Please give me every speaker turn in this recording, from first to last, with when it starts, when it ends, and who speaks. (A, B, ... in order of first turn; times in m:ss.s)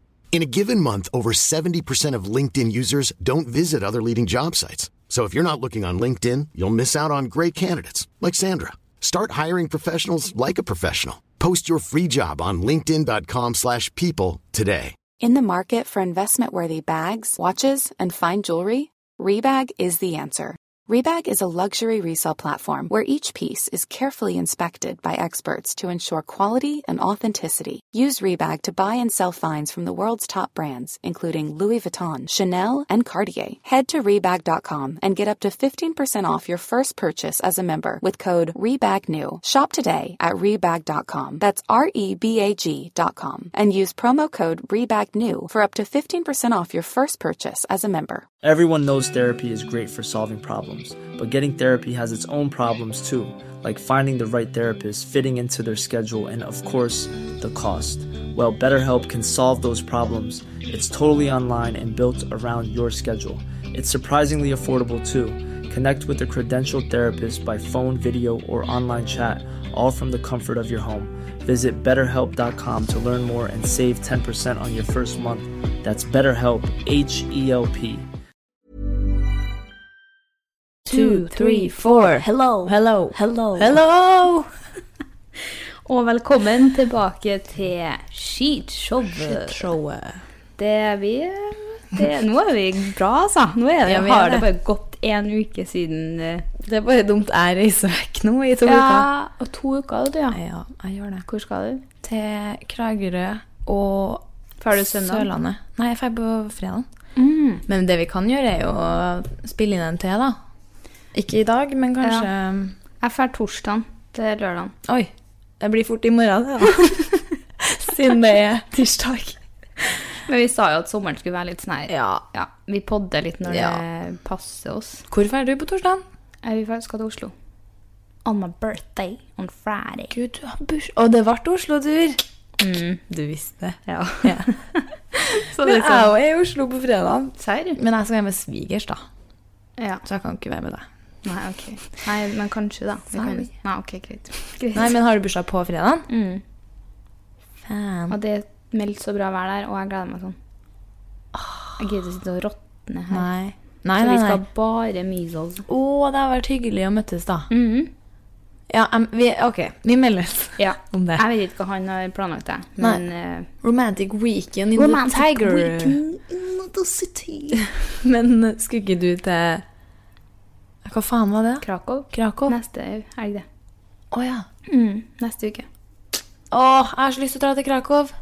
0:00.3-0:15.0 A
0:15.2-0:48.3 B
0:48.4-1:18.1 C
1:20.9-1:24.5 D
1:20.9-1:23.6 E
1:25.9-1:29.6 E
1:29.2-1:30.2 D
1:30.6-1:36.5 E
1:33.8-1:34.5 D
1:36.6-1:39.1 D
1:38.6-1:40.4 E
1:40.3-1:41.3 D
1:41.3-1:41.8 E
1:42.0-1:46.9 D
1:44.6-1:45.3 E
1:47.2-1:47.6 E
1:47.7-1:50.4 D
1:51.1-1:52.8 D
1:53.0-1:54.8 E
1:54.9-1:59.4 D
2:00.3-2:05.0 E
2:01.9-2:02.2 D
2:03.5-2:03.8 D
2:05.1-2:06.0 D
2:06.4-2:07.3 E
2:08.2-2:10.1 E
2:10.1-2:12.2 D
2:12.6-2:13.0 E
2:13.1-2:14.5 D
2:13.9-2:16.1 E
2:15.5-2:19.0 D
2:17.4-2:17.8 E
2:20.0-2:20.9 D
2:21.2-2:24.9 E
2:23.1-2:23.5 D
2:24.7-2:26.1 D
2:26.1-2:26.4 E
2:27.6-2:28.2 D
2:28.1-2:30.4 E
2:31.3-2:31.8 D
2:31.8-2:33.3 E
2:33.1-2:34.4 D
2:34.0-2:35.6 E
2:35.7-2:37.5 D
2:37.5-2:37.9 E
2:38.7-2:41.2 D
2:40.6-2:43.5 E
2:42.8-2:43.1 D
2:43.6-2:46.0 D
2:44.8-2:47.6 E
2:47.6-2:49.6 D
2:50.8-2:52.6 D
2:51.6-2:53.4 E
2:54.1-2:54.4 D
2:54.7-2:55.7 E
2:56.5-2:58.1 D